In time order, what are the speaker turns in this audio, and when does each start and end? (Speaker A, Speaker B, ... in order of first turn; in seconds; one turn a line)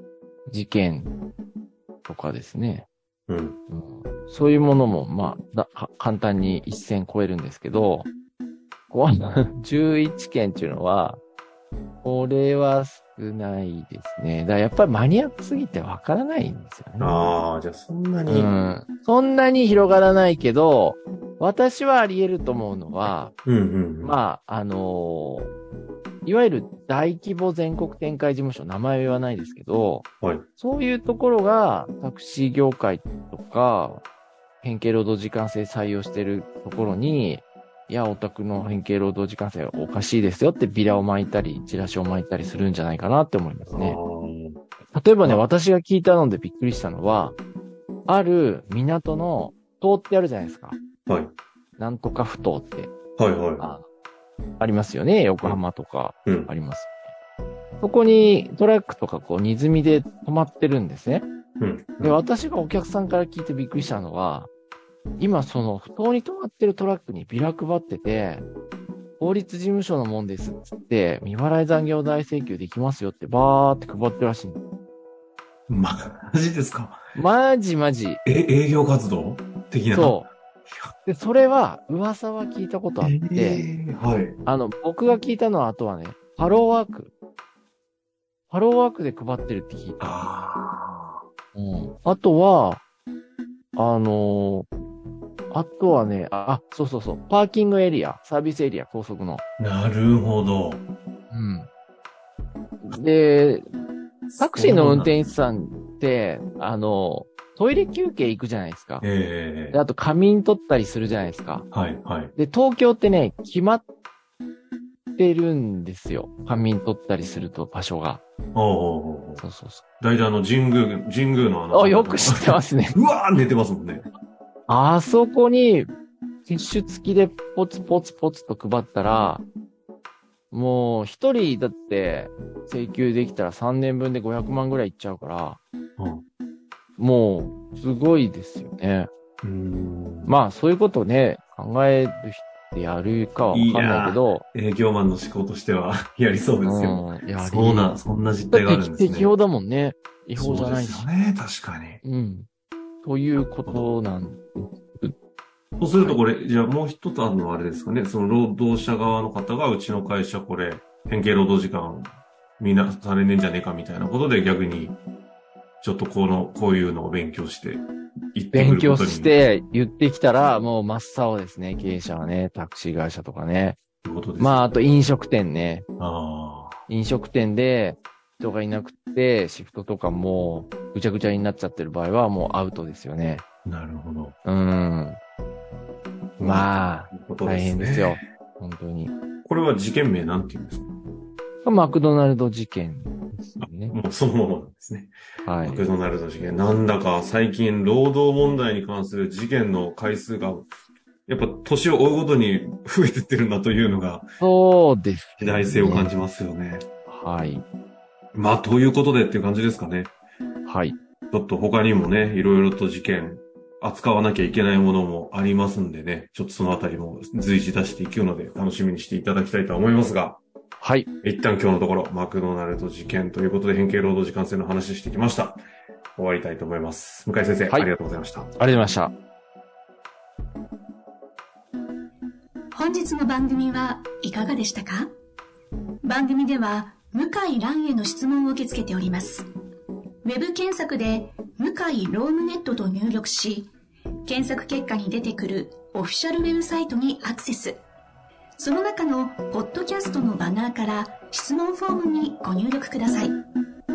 Speaker A: 0.5-1.1
Speaker A: 2.0-2.9
Speaker B: 3.3-3.6
Speaker A: 3.7-8.1
Speaker A: 8.9-11.2
Speaker A: 12.0-17.3
Speaker B: 17.0-18.6
Speaker A: 18.3-23.3
Speaker B: 23.4-24.2
Speaker A: 24.0-25.5
Speaker A: 26.2-34.0
Speaker A: 34.6-44.0
Speaker B: 43.7-44.6
Speaker A: 44.9-47.4
Speaker A: 48.1-50.8
Speaker B: 51.1-51.3
Speaker A: 51.8-52.9
Speaker B: 53.2-53.6
Speaker A: 53.6-53.8
Speaker A: 54.6-57.0
Speaker A: 57.8-61.3
Speaker B: 61.6-62.2
Speaker A: 62.0-64.5
Speaker A: 65.2-68.5
Speaker A: 69.2-74.6
Speaker B: 75.7-77.0
Speaker A: 77.1-78.2
Speaker B: 78.2-80.9
Speaker A: 79.9-80.3
Speaker A: 81.0-83.6
Speaker B: 83.0-84.4
Speaker A: 84.4-87.1
Speaker A: 88.5-90.1
Speaker B: 90.0-91.2
Speaker A: 91.5-92.8
Speaker A: 93.8-94.7
Speaker A: 95.5-99.4
Speaker B: 99.6-100.8
Speaker A: 101.3-101.7
Speaker A: 102.8-103.7
Speaker B: 104.3-105.2
Speaker A: 104.4-109.0
Speaker B: 109.0-109.8
Speaker A: 109.7-111.7
Speaker B: 111.7-112.3
Speaker A: 112.3-113.8
Speaker A: 115.2-118.2
Speaker B: 118.5-119.4
Speaker A: 119.4-119.8
Speaker B: 120.0-124.1
Speaker A: 121.7-122.9
Speaker A: 124.7-125.8
Speaker A: 126.5-129.4
Speaker A: 130.5-135.6
Speaker B: 136.0-136.2
Speaker A: 137.0-139.1
Speaker B: 139.4-140.3
Speaker A: 140.2-144.4
Speaker B: 143.5-149.3
Speaker A: 146.6-147.9
Speaker A: 148.5-151.1
Speaker B: 150.4-152.0
Speaker A: 152.0-152.5
Speaker A: 153.0-155.1
Speaker B: 155.8-165.0
Speaker B: 165.8-169.3
Speaker A: 168.5-173.8
Speaker B: 174.0-174.6
Speaker A: 174.4-175.8
Speaker B: 176.0-176.8
Speaker A: 176.9-183.4
Speaker B: 183.7-184.3
Speaker A: 184.4-185.2
Speaker B: 186.4-188.2
Speaker A: 186.4-189.1
Speaker B: 189.4-190.9
Speaker A: 191.6-194.0
Speaker B: 193.6-200.7
Speaker A: 195.4-195.9
Speaker B: 201.3-204.3
Speaker A: 204.4-206.1
Speaker B: 205.4-206.8
Speaker A: 207.1-207.7
Speaker B: 208.3-210.1
Speaker A: 210.6-211.0
Speaker B: 211.3-220.4
Speaker A: 220.8-221.1
Speaker B: 221.2-225.6
Speaker B: 226.2-228.5
Speaker A: 228.5-229.1
Speaker C: 232.7-235.1
Speaker C: 236.0-239.5
Speaker C: 240.2-243.7
Speaker C: 244.2-247.8
Speaker C: 248.6-253.4